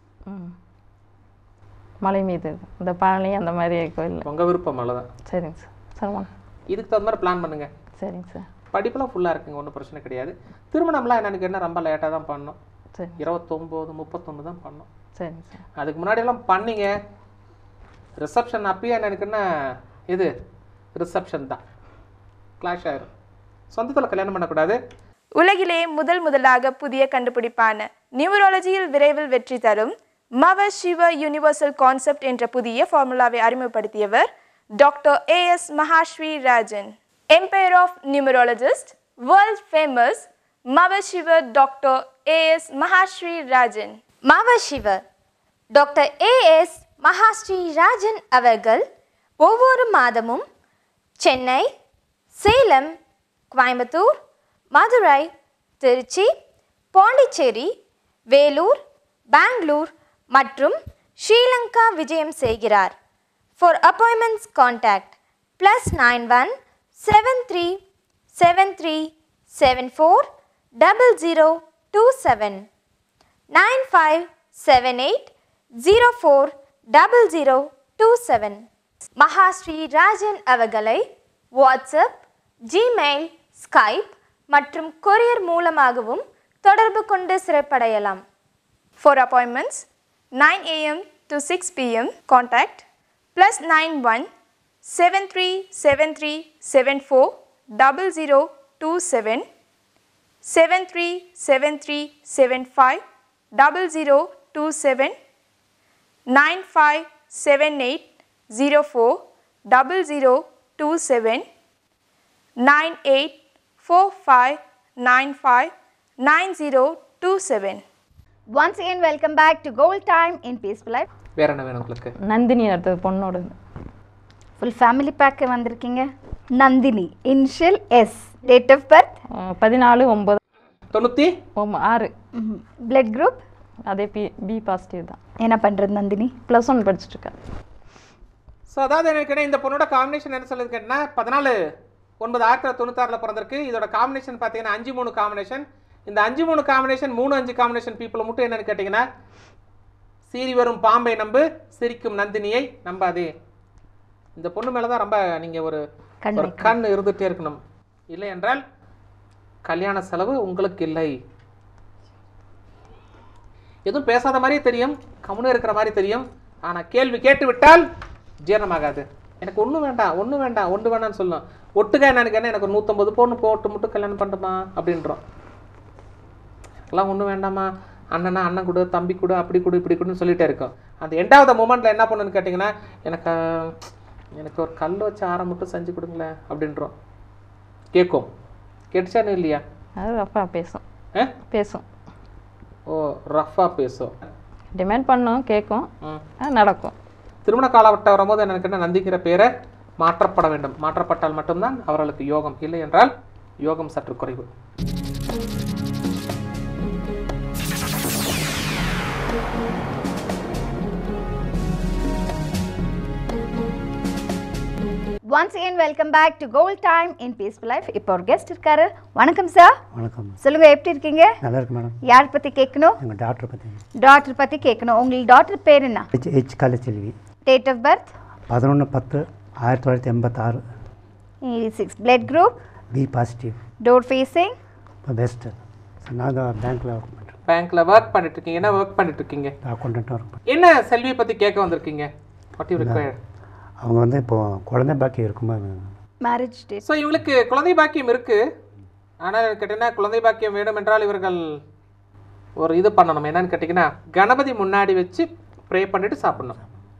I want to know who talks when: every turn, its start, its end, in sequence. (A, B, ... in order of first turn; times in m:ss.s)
0:00.3-0:00.6 A
0:02.0-0:04.3 A
0:04.2-0:05.1 B
0:05.3-0:06.3 A
0:06.7-0:07.7 B
0:08.0-0:08.5 A
0:08.7-0:12.6 B
0:13.0-0:13.2 A
0:13.2-0:14.9 B
0:15.2-0:15.6 A
0:15.8-0:16.9 B
0:18.2-0:19.4 B
0:21.0-0:21.6 B
0:22.6-0:23.1 B
0:23.7-0:24.8 B
0:25.4-0:44.0 C
0:44.2-0:45.0 D
0:45.7-0:48.8 D
0:49.4-0:50.4 D
0:51.2-0:51.7 D
0:52.4-0:52.9 D
0:53.5-0:54.2 D
0:54.7-0:56.3 D
0:56.9-0:57.7 D
0:58.3-0:58.8 D
0:59.3-1:03.0 D
1:03.6-1:07.8 D
1:08.4-1:10.3 D
1:10.8-1:12.7 D
1:13.5-1:18.6 D
1:19.2-1:21.0 D
1:21.6-1:28.2 D
1:29.0-1:29.9 C
1:30.4-1:32.8 C
1:33.4-1:34.3 C
1:34.9-1:39.5 C
1:40.4-1:43.0 C
1:43.6-1:45.2 C
1:46.3-1:51.5 C
1:52.6-1:55.7 C
1:56.2-1:57.8 C
1:58.5-2:01.1 E
2:01.4-2:02.1 B
2:02.2-2:03.6 A
2:04.6-2:09.2 E
2:09.4-2:10.4 A
2:10.9-2:11.3 B
2:11.6-2:12.1 A
2:12.4-2:13.4 E
2:13.9-2:15.2 A
2:15.4-2:16.3 E
2:16.5-2:17.3 A
2:18.7-2:21.6 B
2:22.2-2:29.1 B
2:30.3-2:33.3 B
2:34.4-2:35.8 B
2:36.2-2:36.8 E
2:36.4-2:38.6 B
2:39.7-2:41.2 B
2:43.9-2:47.9 B
2:48.5-2:55.2 B
2:56.9-3:03.7 B
3:04.4-3:06.9 B
3:07.9-3:08.3 B
3:08.9-3:09.6 B
3:10.0-3:10.8 A
3:11.5-3:11.8 A
3:12.9-3:14.1 B
3:14.8-3:15.9 A
3:16.4-3:16.9 A
3:17.4-3:23.1 B
3:23.6-3:24.5 B
3:35.3-3:39.8 E
3:39.9-3:40.4 F
3:40.4-3:41.4 E
3:41.4-3:42.0 F
3:42.0-3:43.0 E
3:43.0-3:43.8 F
3:44.0-3:46.1 E
3:46.1-3:47.2 F
3:47.5-3:48.1 E
3:48.5-3:50.6 F
3:51.4-3:52.5 E
3:52.9-3:53.6 F
3:53.8-3:54.6 E
3:55.1-3:57.4 F
3:57.5-3:59.5 B
3:59.6-4:00.4 F
4:00.5-4:03.2 B
4:02.8-4:03.1 F
4:03.8-4:05.9 F
4:06.2-4:06.8 E
4:06.9-4:08.4 B
4:09.2-4:11.4 B
4:12.6-4:16.6 B
4:16.3-4:16.7 F